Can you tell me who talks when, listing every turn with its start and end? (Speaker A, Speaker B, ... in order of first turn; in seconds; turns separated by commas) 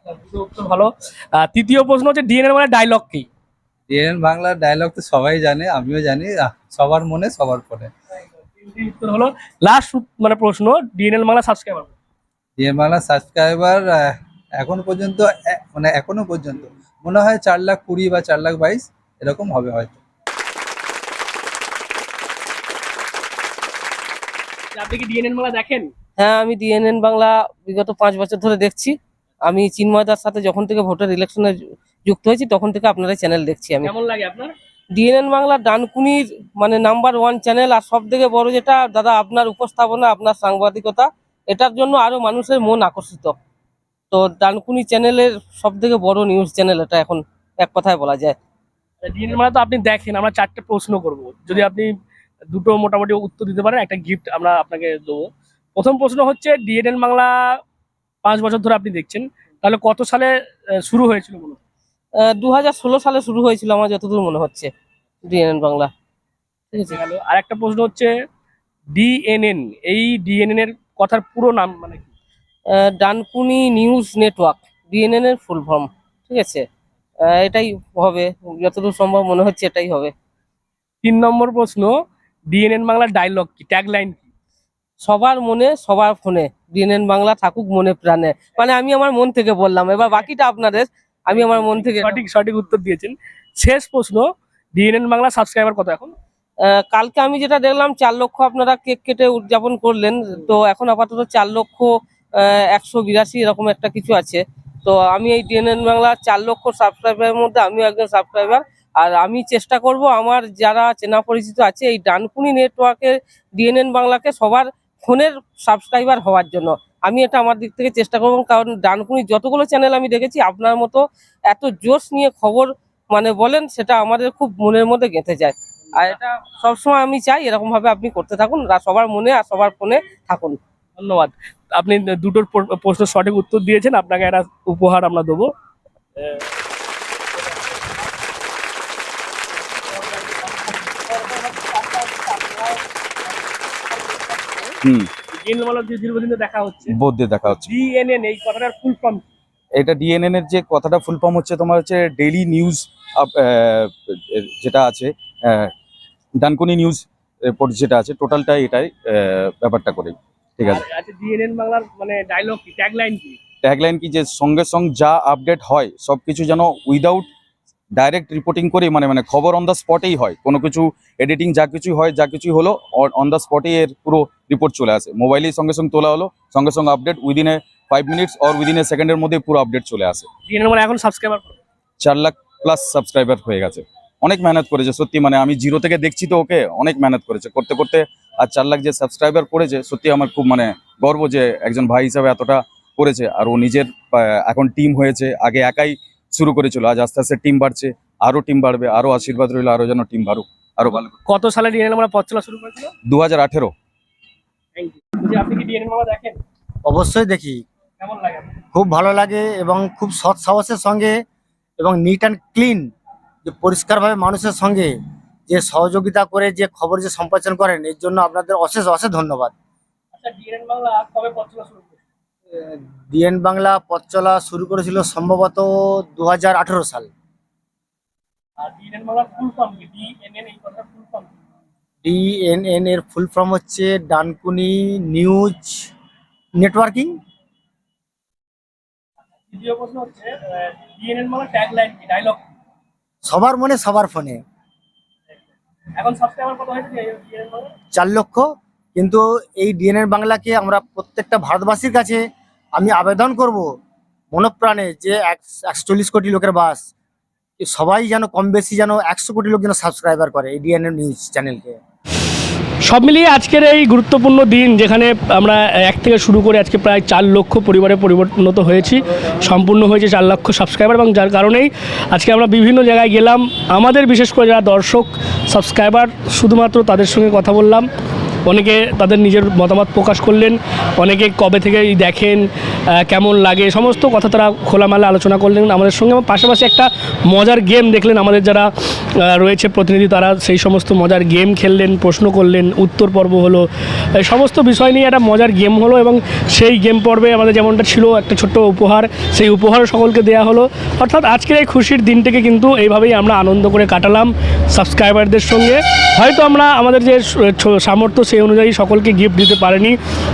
Speaker A: 0.3-3.3, Speaker B: 3.9-7.9, Speaker A: 8.6-11.9, Speaker B: 12.6-20.0, Speaker A: 24.7-25.9, Speaker C: 26.2-34.0, Speaker A: 33.9-34.5, Speaker C: 34.9-43.4, Speaker C: 44.1-48.4, Speaker A: 49.0-51.9, Speaker A: 52.5-57.3, Speaker A: 58.2-61.6, Speaker C: 62.1-64.7, Speaker C: 65.2-65.9, Speaker C: 66.7-67.0, Speaker A: 66.9-68.1, Speaker A: 68.9-72.0, Speaker C: 72.7-76.6, Speaker C: 77.2-80.1, Speaker A: 81.0-82.0, Speaker A: 82.5-84.2, Speaker C: 85.0-92.2, Speaker A: 91.8-96.1, Speaker C: 96.6-130.6, Speaker A: 131.0-135.5, Speaker A: 137.4-137.8, Speaker A: 139.9-144.7, Speaker A: 145.3-146.9, Speaker D: 146.9-147.7, Speaker A: 147.5-149.2, Speaker D: 149.8-155.7, Speaker D: 156.4-160.8, Speaker A: 160.7-163.4, Speaker D: 163.6-167.3, Speaker D: 167.9-180.3, Speaker A: 180.5-181.6, Speaker D: 182.0-201.1, Speaker A: 201.2-202.9, Speaker D: 203.1-203.7, Speaker A: 204.8-206.4, Speaker E: 206.8-207.6, Speaker A: 208.0-208.5, Speaker E: 208.7-211.2, Speaker E: 211.8-212.9, Speaker E: 213.4-214.9, Speaker E: 215.5-219.5, Speaker A: 220.2-222.0, Speaker E: 223.1-227.1, Speaker A: 228.6-231.3, Speaker E: 232.0-235.9, Speaker E: 236.6-237.1, Speaker A: 239.5-242.4, Speaker E: 243.2-244.4, Speaker A: 246.0-247.7, Speaker E: 247.9-252.2, Speaker E: 252.7-253.7, Speaker E: 254.3-256.8, Speaker E: 257.6-261.8, Speaker A: 262.9-277.9, Speaker A: 278.5-282.4, Speaker A: 283.0-288.7, Speaker A: 289.2-293.6, Speaker A: 294.2-309.9